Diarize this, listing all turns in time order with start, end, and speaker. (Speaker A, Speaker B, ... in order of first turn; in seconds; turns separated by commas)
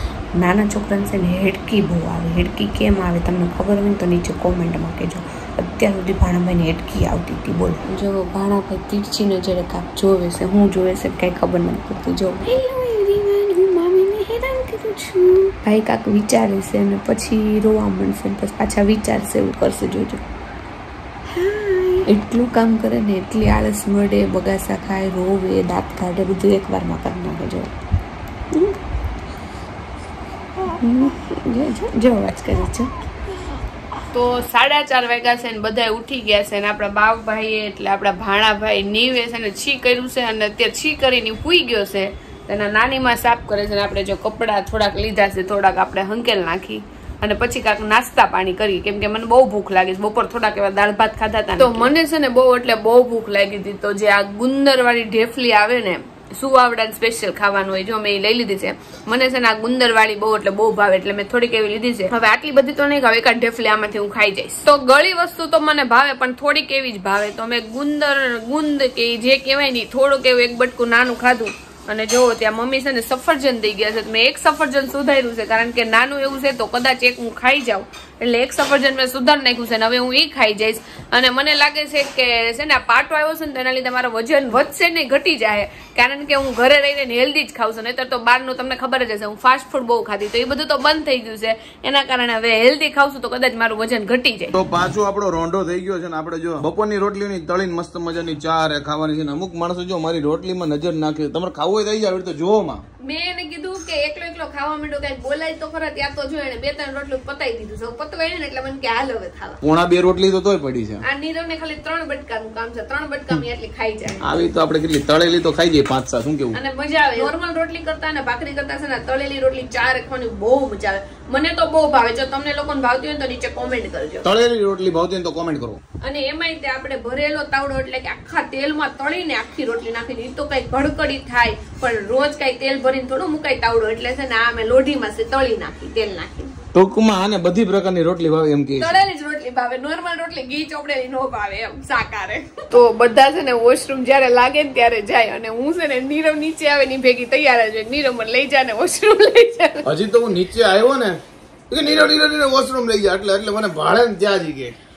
Speaker A: 0.4-12.5, Speaker B: 12.5-15.4, Speaker A: 15.5-20.2, Speaker A: 21.4-27.7, Speaker A: 30.7-32.9, Speaker B: 34.1-94.5, Speaker C: 94.5-102.8, Speaker B: 103.0-109.6, Speaker C: 109.6-111.0, Speaker B: 111.0-114.2, Speaker C: 114.2-116.6, Speaker B: 116.5-124.2, Speaker C: 124.2-125.8, Speaker B: 126.0-136.5, Speaker C: 136.7-139.0, Speaker B: 138.8-149.9, Speaker C: 149.8-151.2, Speaker C: 151.7-154.7